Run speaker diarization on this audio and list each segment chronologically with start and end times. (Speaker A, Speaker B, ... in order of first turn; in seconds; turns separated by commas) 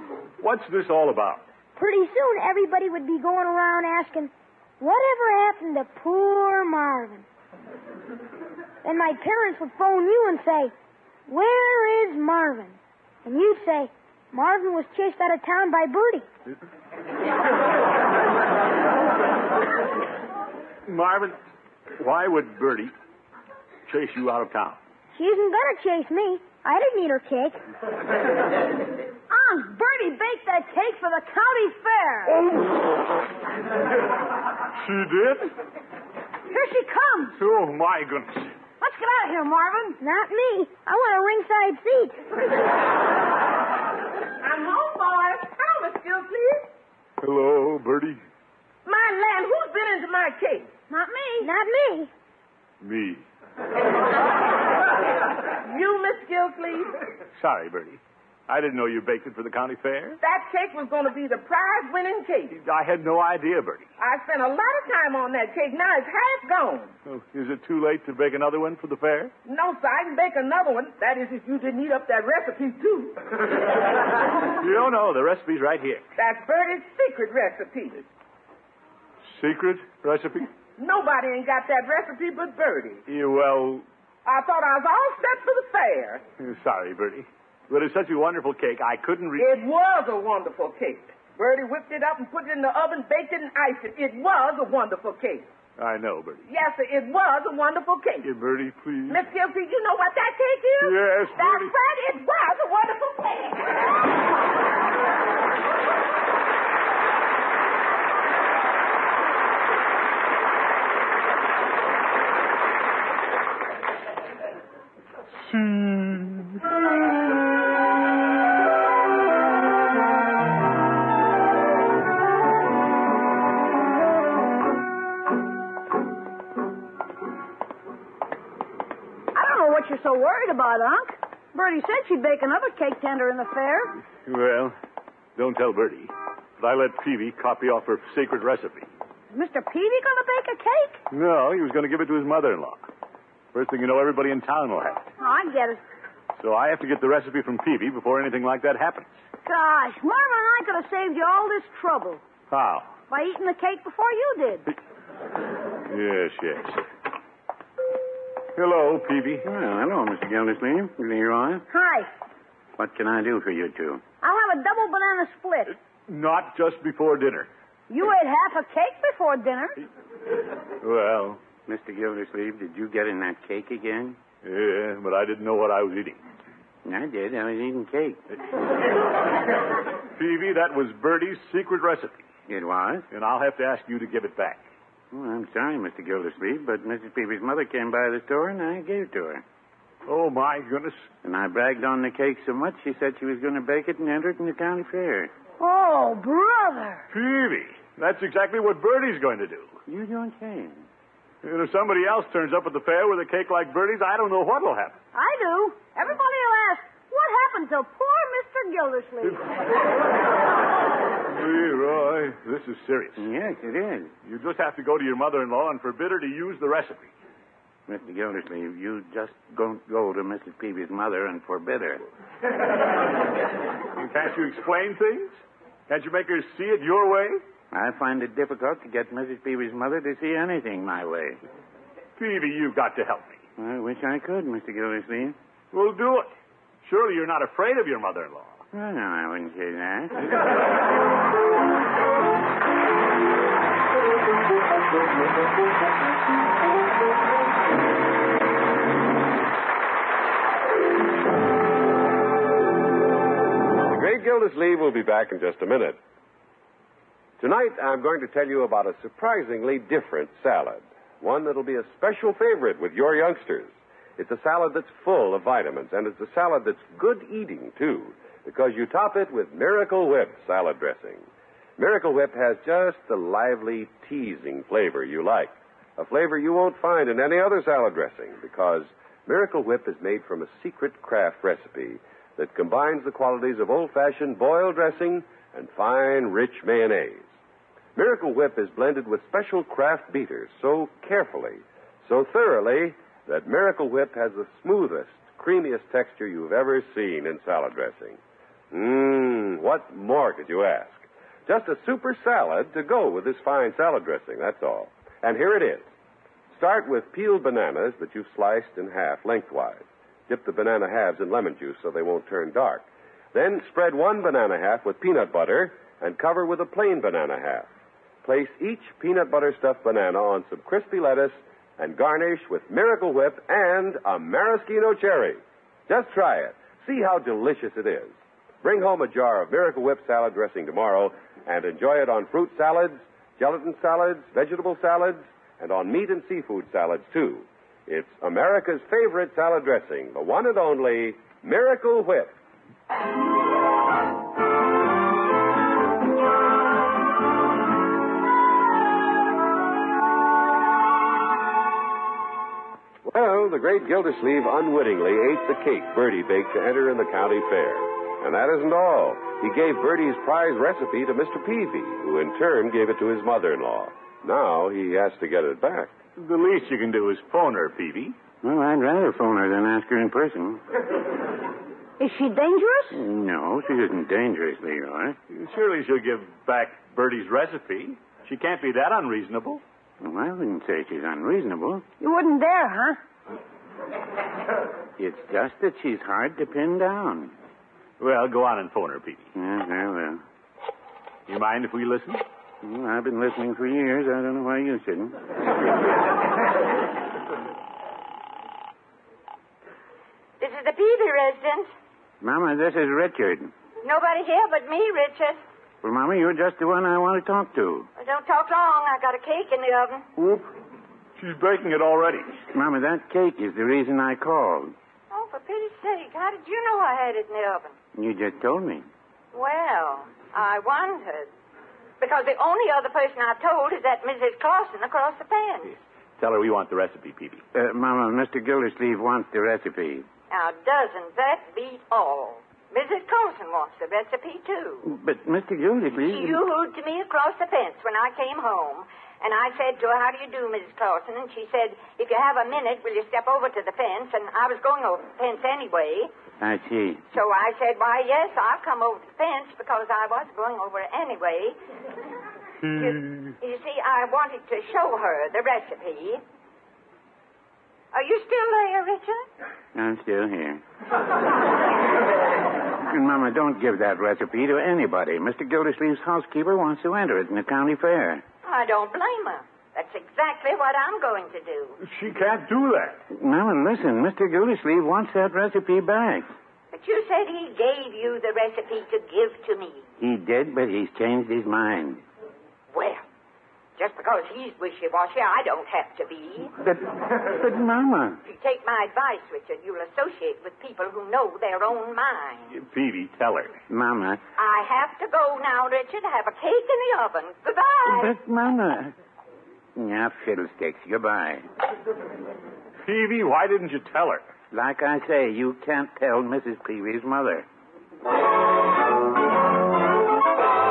Speaker A: 0.4-1.5, Speaker B: 1.8-7.2, Speaker B: 8.8-10.7, Speaker B: 11.3-16.3, Speaker A: 20.9-21.4, Speaker A: 22.0-22.9, Speaker A: 23.9-24.8, Speaker B: 25.1-27.6, Speaker C: 29.3-32.4, Speaker A: 34.8-35.5, Speaker C: 36.5-37.4, Speaker A: 37.4-38.5, Speaker C: 38.8-40.0, Speaker B: 40.0-42.2, Speaker D: 44.4-46.7, Speaker A: 47.2-48.2, Speaker D: 48.9-50.7, Speaker C: 50.9-51.5, Speaker B: 51.4-52.1, Speaker A: 52.8-53.2, Speaker D: 55.5-56.9, Speaker A: 57.4-60.2, Speaker D: 60.2-62.6, Speaker A: 62.5-63.9, Speaker D: 64.0-66.9, Speaker A: 67.1-69.3, Speaker D: 69.5-73.3, Speaker A: 74.6-76.0, Speaker D: 76.2-78.0, Speaker A: 79.3-80.5, Speaker D: 80.8-83.0, Speaker A: 83.1-83.8, Speaker D: 84.2-86.2, Speaker A: 86.4-89.5, Speaker D: 89.4-95.5, Speaker A: 95.8-96.5, Speaker D: 96.5-98.3, Speaker A: 98.2-99.2, Speaker D: 99.1-103.9, Speaker A: 100.8-101.7, Speaker A: 115.5-116.6, Speaker C: 129.3-134.0, Speaker A: 134.2-134.8, Speaker A: 135.4-138.9, Speaker C: 139.3-141.0, Speaker A: 141.1-142.9, Speaker A: 143.5-145.1, Speaker C: 145.2-145.8, Speaker A: 146.4-149.1, Speaker C: 149.4-152.2, Speaker A: 152.5-153.0, Speaker C: 153.1-154.7, Speaker A: 155.9-156.8, Speaker A: 158.6-159.5, Speaker E: 159.4-161.7, Speaker C: 161.7-162.1, Speaker E: 162.8-164.0, Speaker C: 164.2-165.8, Speaker A: 165.7-167.5, Speaker C: 167.9-169.8, Speaker A: 170.8-171.4, Speaker E: 171.7-174.2, Speaker A: 174.4-176.2, Speaker E: 176.8-178.2, Speaker A: 180.2-182.3, Speaker E: 182.5-183.1, Speaker A: 183.1-184.6, Speaker E: 185.1-189.4, Speaker A: 190.1-191.1, Speaker E: 191.2-195.3, Speaker C: 195.6-197.1, Speaker A: 197.1-199.7, Speaker E: 199.9-200.8, Speaker A: 201.4-205.0, Speaker C: 205.1-209.5, Speaker A: 211.3-213.2, Speaker E: 213.2-214.1, Speaker A: 214.2-217.1, Speaker E: 217.9-222.0, Speaker A: 224.0-225.4, Speaker A: 225.9-227.4, Speaker E: 227.7-231.4, Speaker A: 232.2-233.4, Speaker E: 233.6-235.4, Speaker A: 235.7-236.3, Speaker A: 236.8-238.6, Speaker E: 238.7-240.3, Speaker F: 253.9-256.0, Speaker F: 257.4-271.3, Speaker F: 271.8-287.3, Speaker F: 288.0-298.2, Speaker F: 298.7-305.9, Speaker F: 306.5-317.7, Speaker F: 318.2-342.3, Speaker F: 353.1-365.9, Speaker A: 366.2-368.2, Speaker E: 368.4-370.6, Speaker C: 372.0-373.0, Speaker E: 372.9-375.2, Speaker A: 375.3-379.6, Speaker E: 380.0-381.9, Speaker C: 382.0-383.0, Speaker E: 385.0-387.3, Speaker A: 388.0-389.3, Speaker E: 389.4-390.2, Speaker A: 391.3-392.2, Speaker E: 392.6-395.2, Speaker G: 400.4-401.7, Speaker E: 402.2-403.5, Speaker G: 403.8-405.4, Speaker E: 405.8-407.9, Speaker G: 408.0-410.1, Speaker A: 410.2-410.5, Speaker A: 411.2-412.4, Speaker E: 412.5-414.8, Speaker G: 415.1-417.8, Speaker E: 417.9-418.9, Speaker G: 419.3-421.3, Speaker G: 422.0-425.8, Speaker A: 426.2-427.4, Speaker E: 427.5-430.1, Speaker G: 430.3-434.9, Speaker E: 434.9-436.4, Speaker G: 436.0-446.1, Speaker E: 446.4-447.0, Speaker G: 447.1-451.6, Speaker A: 452.6-453.3, Speaker G: 452.7-456.2, Speaker G: 457.9-459.3, Speaker E: 459.7-460.6, Speaker E: 462.9-468.2, Speaker G: 468.4-471.8, Speaker A: 471.8-473.0, Speaker E: 473.1-476.3, Speaker G: 476.7-479.9, Speaker E: 480.0-482.0, Speaker G: 482.7-483.1, Speaker G: 483.8-486.5, Speaker E: 486.6-488.2, Speaker G: 488.2-492.6, Speaker A: 492.5-493.5, Speaker E: 493.7-494.2, Speaker G: 494.4-498.1, Speaker E: 497.9-498.9, Speaker E: 499.8-501.5, Speaker A: 502.8-504.2, Speaker E: 504.5-507.5